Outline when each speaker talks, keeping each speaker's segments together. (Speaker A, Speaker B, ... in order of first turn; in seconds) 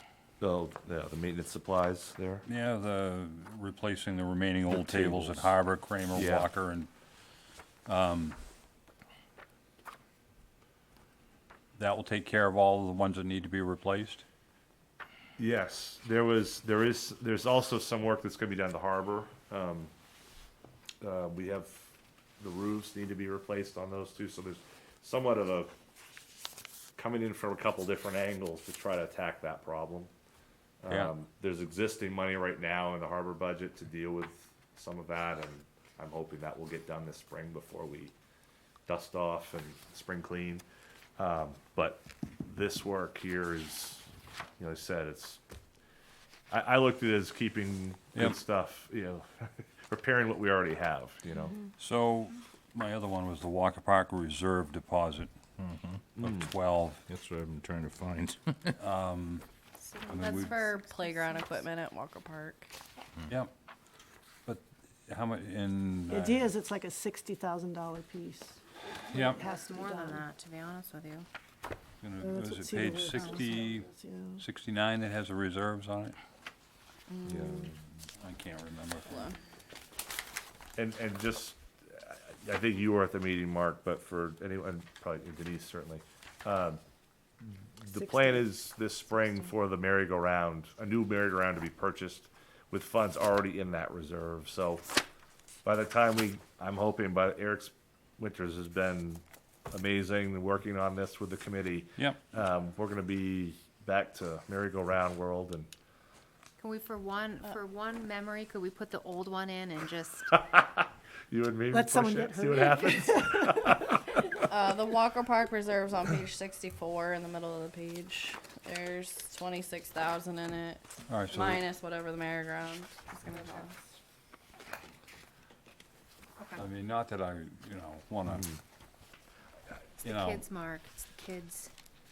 Speaker A: 0.4-2.5, 4.7-5.5, 6.1-6.5, 15.4-19.9, 21.0-25.8, 27.0-30.1, 30.8-38.1, 38.9-40.6, 41.2-44.0, 44.6-45.4, 46.5-51.5, 56.2-56.5, 77.2-77.8, 80.8-86.8, 87.4-94.8, 95.7-105.7, 110.3-114.0
Speaker B: 2.5-6.9, 7.9-8.4, 11.8-14.2, 48.1-48.4, 51.8-55.3, 56.2-57.0, 58.8-59.4, 60.1-60.6, 64.5-66.5, 69.1-69.4, 72.0-73.9, 74.4-76.2, 78.2-79.2, 121.1-121.6, 126.6-128.5, 130.0-130.5
Speaker C: 55.6-56.1, 57.1-58.7
Speaker D: 59.8-61.6, 69.2-71.3, 106.6-110.3, 123.3-123.7, 130.1-131.7
Speaker E: 60.2-62.7, 77.1-77.7, 79.1-79.4, 114.4-123.7
Speaker F: 66.1-68.6, 69.1-70.2, 72.2-74.4, 87.9-88.5, 111.7-114.0